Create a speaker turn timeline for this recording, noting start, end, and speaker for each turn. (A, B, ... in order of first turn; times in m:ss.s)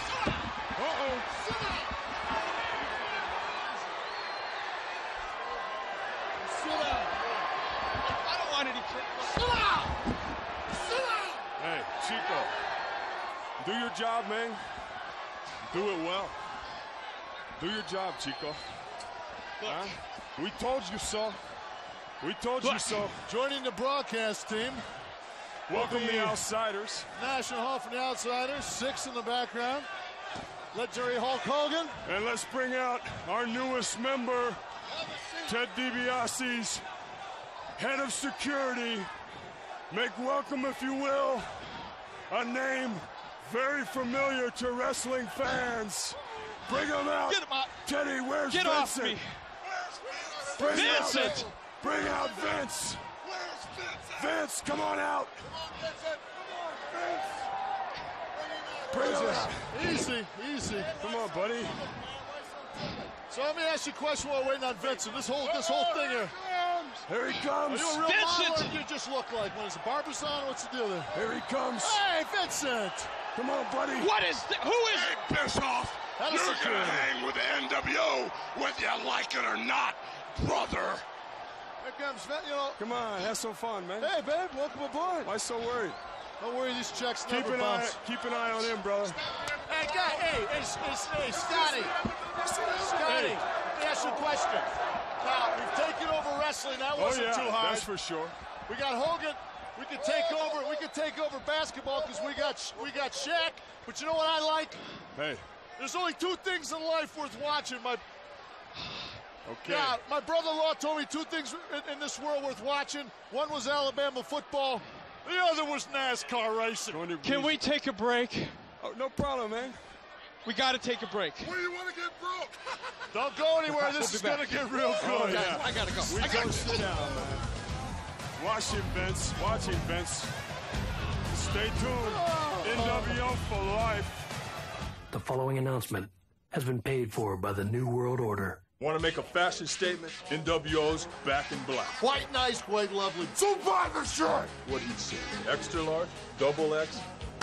0:00.8-0:01.3 A
0:06.6-0:07.1 B
0:08.0-0:09.6 C
0:11.6-0:12.5 A
0:13.6-0:14.6 A
0:15.7-0:16.3 A
0:17.6-0:18.6 A
0:19.6-0:20.0 C
0:19.6-0:21.4 A
0:22.2-0:23.2 A
0:22.6-0:23.1 C
0:23.2-0:24.9 B
0:25.7-0:27.1 A
0:25.7-0:26.4 C
0:27.1-0:29.9 B
0:30.7-0:32.0 B
0:32.0-0:34.6 A
0:35.0-0:35.5 B
0:35.4-0:36.8 A
0:37.8-0:39.1 A
0:39.9-0:41.5 A
0:42.3-0:46.2 A
0:46.7-0:49.2 A
0:47.2-0:47.7 C
0:48.5-0:49.3 C
0:50.1-0:50.6 D
0:50.6-0:51.5 C
0:50.6-0:53.0 A
0:53.3-0:54.0 D
0:54.2-0:55.4 A
0:55.7-0:56.9 B
0:58.4-1:01.1 B
0:58.9-0:59.7 A
1:01.0-1:01.8 A
1:01.8-1:06.4 B
1:07.1-1:08.0 A
1:07.6-1:11.1 B
1:08.0-1:08.8 C
1:11.1-1:12.0 A
1:11.8-1:13.2 B
1:13.3-1:14.1 A
1:14.0-1:15.3 C
1:14.9-1:21.0 D
1:16.2-1:17.1 B
1:21.8-1:22.8 B
1:22.8-1:24.1 A
1:24.0-1:25.3 B
1:25.2-1:26.0 A
1:26.4-1:28.0 B
1:27.3-1:29.2 A
1:29.6-1:32.0 B
1:32.2-1:33.4 A
1:32.6-1:37.9 B
1:36.9-1:38.4 A
1:38.6-1:44.8 B
1:45.1-1:45.4 A
1:45.8-1:48.0 B
1:49.4-1:50.0 A
1:49.6-1:57.0 B
1:56.9-1:57.6 A
1:57.2-1:58.6 C
1:58.8-1:59.8 A
2:00.4-2:01.6 C
2:01.6-2:02.5 D
2:03.1-2:05.7 B
2:03.7-2:06.9 C
2:05.0-2:07.5 A
2:08.4-2:10.3 A
2:11.3-2:14.2 A
2:12.1-2:13.2 B
2:15.1-2:18.6 E
2:18.8-2:22.0 F
2:22.0-2:24.5 B
2:23.6-2:24.5 D
2:24.5-2:27.0 F